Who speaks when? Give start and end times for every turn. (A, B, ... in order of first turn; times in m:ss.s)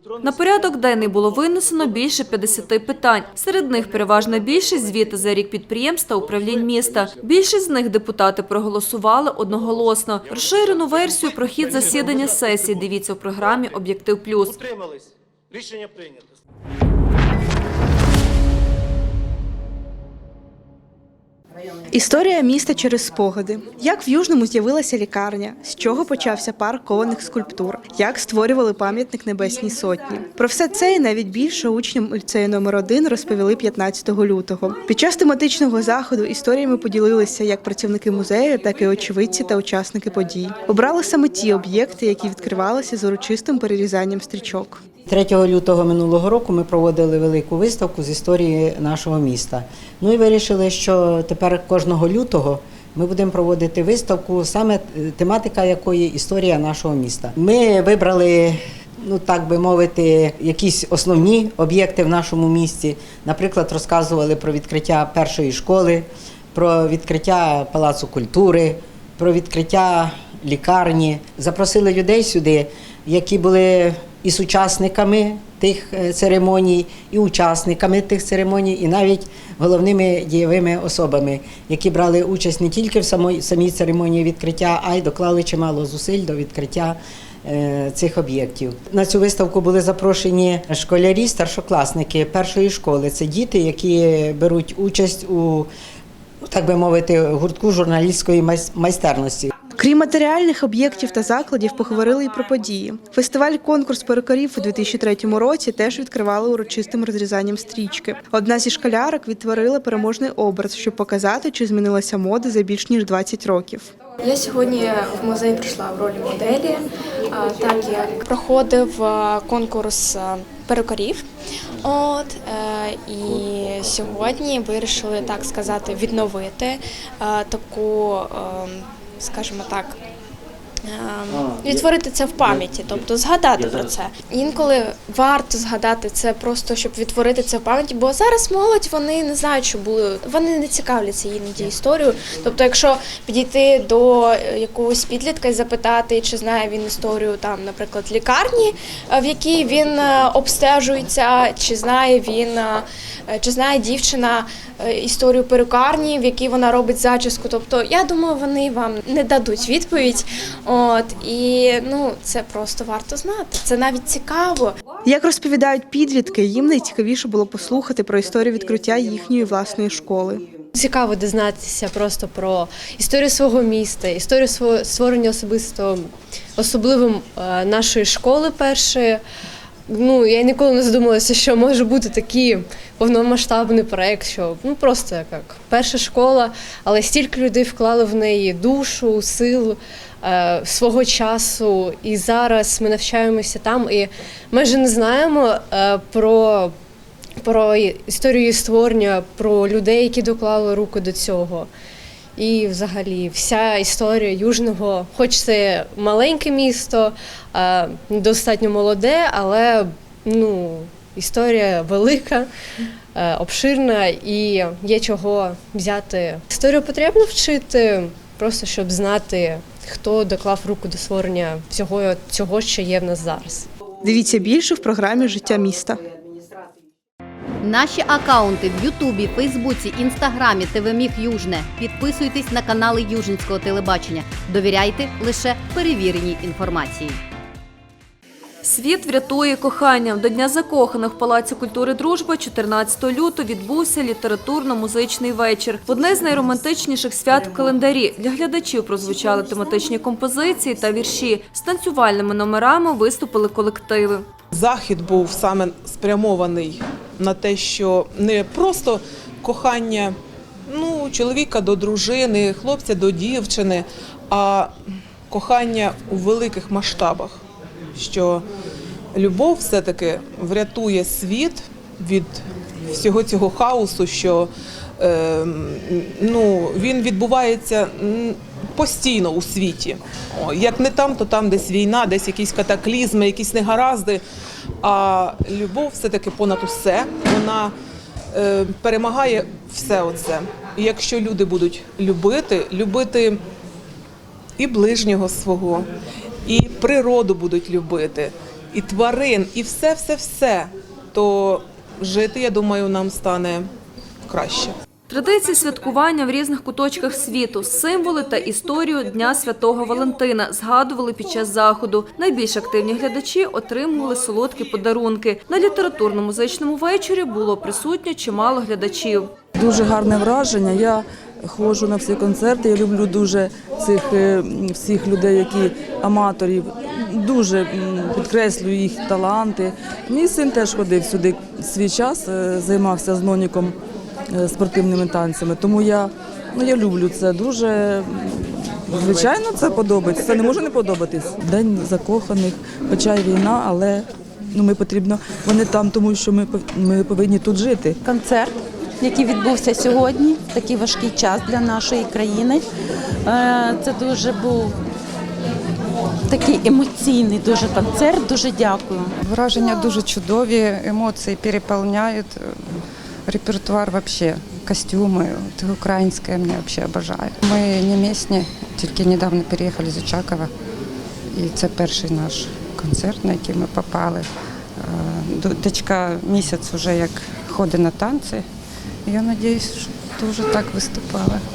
0:00.2-0:14.6 A
0:21.9-0:44.8 B
0:45.1-1:35.7 C
1:36.4-1:39.5 C
1:39.7-1:53.9 B
1:54.2-2:01.2 D
2:01.8-2:10.0 D
2:10.8-2:44.7 D
2:45.0-2:50.4 B
2:50.8-2:59.2 E
2:59.9-3:16.7 E
3:17.4-3:21.7 E
3:22.4-3:32.5 E
3:33.1-3:43.7 E
3:44.0-3:46.0 B
3:47.6-3:57.2 F
3:58.6-4:14.2 A
4:14.5-4:20.1 G
4:20.7-4:24.7 G
4:25.3-4:27.4 G
4:27.9-4:28.4 G
4:29.1-4:32.4 G
4:32.9-4:44.2 G
4:44.8-4:47.7 G
4:48.3-4:53.4 G
4:54.6-4:55.9 G
4:56.4-5:03.7 G
5:04.3-5:04.7 G
5:05.1-5:19.3 A
5:19.6-5:21.0 H
5:21.5-5:26.6 H
5:27.2-5:33.7 H
5:34.4-5:38.0 H
5:38.9-5:44.0 H
5:44.6-5:47.9 H
5:48.0-5:52.6 I
5:53.2-5:54.7 I
5:56.3-5:59.1 I
5:59.1-6:02.6 J
6:03.3-6:10.5 J
6:11.3-6:18.4 J
6:19.0-6:21.4 J